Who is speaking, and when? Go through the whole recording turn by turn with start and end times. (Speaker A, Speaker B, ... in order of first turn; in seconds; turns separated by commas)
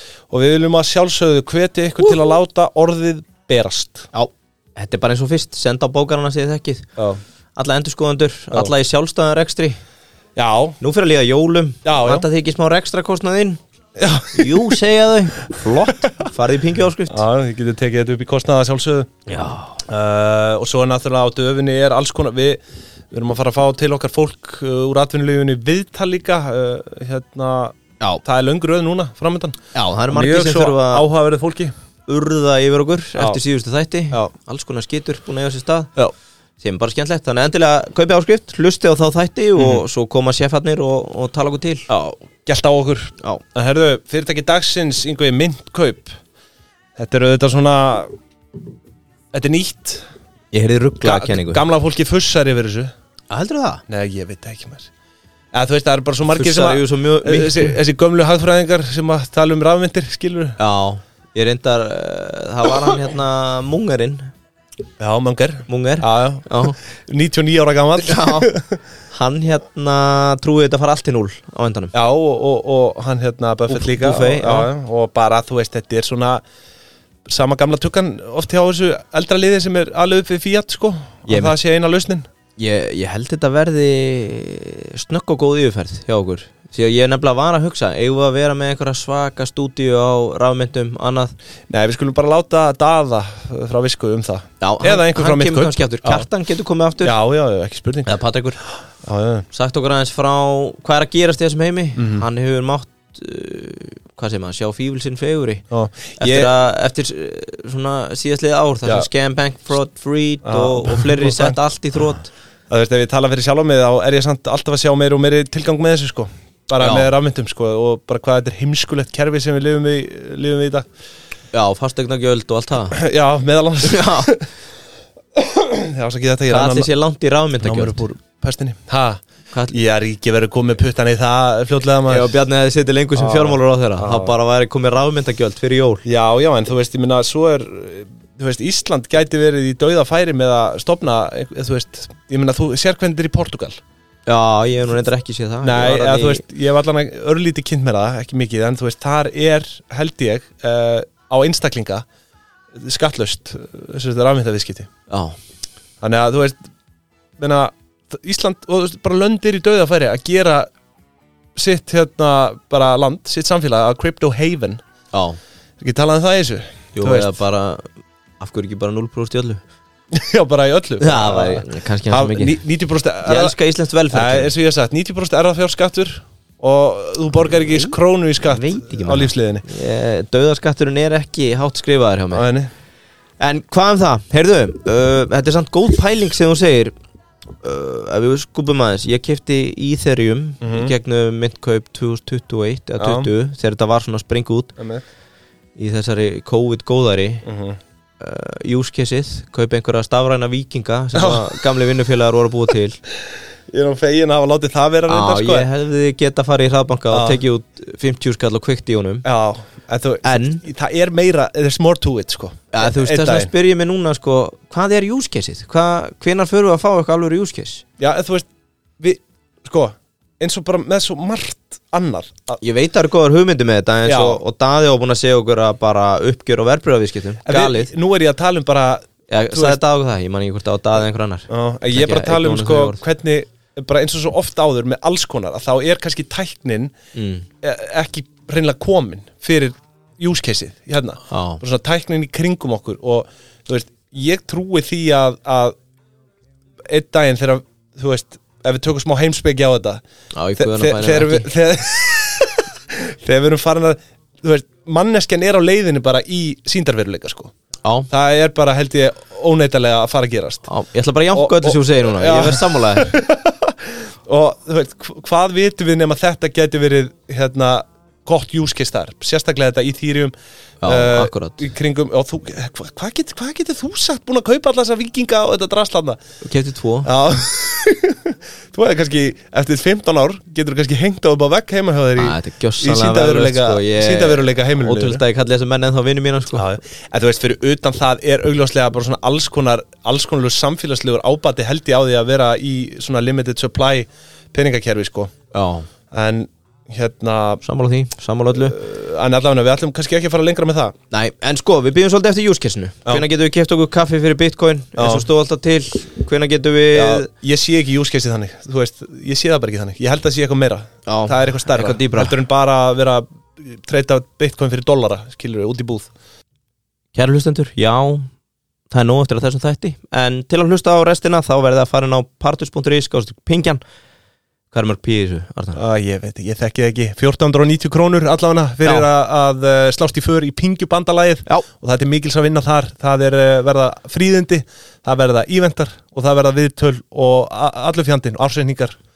Speaker A: 0.3-4.1, Speaker B: 4.1-6.9, Speaker B: 7.6-9.8, Speaker A: 10.4-10.8, Speaker B: 10.8-13.6, Speaker A: 11.8-12.3, Speaker A: 14.0-14.8, Speaker B: 14.3-17.2, Speaker A: 15.6-16.1, Speaker A: 17.1-19.1, Speaker B: 19.3-19.8, Speaker A: 19.9-22.6, Speaker A: 23.1-29.6, Speaker B: 29.7-31.1, Speaker A: 30.1-31.7, Speaker B: 32.1-35.9, Speaker A: 33.2-33.4, Speaker B: 36.6-41.9, Speaker A: 39.6-39.8, Speaker A: 41.9-46.2, Speaker A: 47.0-48.1, Speaker A: 49.3-50.0, Speaker B: 50.5-51.6, Speaker A: 51.0-52.9, Speaker B: 53.3-53.8, Speaker A: 53.9-54.9, Speaker A: 55.5-60.6, Speaker B: 56.3-57.8, Speaker B: 60.6-64.3, Speaker A: 65.0-68.7, Speaker B: 65.7-66.8, Speaker B: 68.0-68.5, Speaker B: 69.1-71.9, Speaker A: 71.9-76.4, Speaker B: 73.7-74.7, Speaker A: 77.3-82.3, Speaker B: 81.3-81.5, Speaker B: 82.6-91.3, Speaker A: 91.7-96.3, Speaker B: 94.6-97.2, Speaker A: 97.0-98.1, Speaker B: 98.0-98.6, Speaker A: 99.0-99.5, Speaker B: 99.5-105.6, Speaker A: 102.0-102.3, Speaker A: 105.7-106.5, Speaker B: 106.2-112.3, Speaker A: 110.4-111.6, Speaker A: 112.7-120.8, Speaker B: 116.8-117.1, Speaker B: 121.5-123.0, Speaker A: 122.9-124.5, Speaker B: 123.8-124.3, Speaker A: 125.4-126.9, Speaker B: 126.5-128.0, Speaker A: 127.6-132.3, Speaker B: 132.1-136.0, Speaker A: 133.2-134.4, Speaker A: 136.1-143.8, Speaker B: 144.3-146.4, Speaker A: 145.6-152.1, Speaker A: 152.8-154.9, Speaker B: 155.1-155.4, Speaker A: 156.0-156.6, Speaker A: 157.4-160.7, Speaker A: 161.6-164.8, Speaker B: 165.1-165.4, Speaker A: 165.8-167.3, Speaker B: 166.9-167.9, Speaker B: 168.4-169.6, Speaker A: 170.1-173.6, Speaker B: 171.0-172.6, Speaker B: 173.2-174.5, Speaker A: 174.1-179.7, Speaker B: 177.6-182.5, Speaker A: 182.3-182.7, Speaker B: 183.4-186.9, Speaker B: 187.6-194.7, Speaker A: 190.6-190.9, Speaker A: 193.0-193.3, Speaker A: 194.8-195.0, Speaker B: 195.8-197.4, Speaker A: 197.4-197.8, Speaker B: 198.2-203.0, Speaker A: 201.2-201.6, Speaker A: 203.7-205.7, Speaker B: 205.1-209.3, Speaker A: 207.1-207.4, Speaker A: 209.2-213.5, Speaker B: 210.2-210.6, Speaker B: 212.7-217.8, Speaker A: 218.0-218.5, Speaker A: 219.0-222.6, Speaker B: 222.6-227.9, Speaker A: 224.1-224.4, Speaker A: 227.4-229.8, Speaker B: 229.3-233.0, Speaker A: 231.5-236.9, Speaker B: 237.1-237.5, Speaker A: 237.6-245.8, Speaker B: 241.3-241.6, Speaker A: 246.9-250.0, Speaker B: 250.3-251.5, Speaker A: 250.6-257.5, Speaker A: 258.1-260.6, Speaker B: 260.7-263.1, Speaker A: 261.3-276.2, Speaker B: 270.8-271.6, Speaker B: 276.4-277.1, Speaker A: 277.0-285.2, Speaker B: 282.2-286.6, Speaker A: 286.5-295.3, Speaker B: 295.5-295.9, Speaker A: 296.1-297.6, Speaker B: 297.6-298.8, Speaker A: 298.5-300.9, Speaker B: 301.1-307.3, Speaker A: 305.0-305.3, Speaker A: 306.9-316.1, Speaker B: 311.1-312.4, Speaker B: 317.1-318.3, Speaker B: 318.9-323.8, Speaker B: 324.7-325.8, Speaker A: 325.8-339.0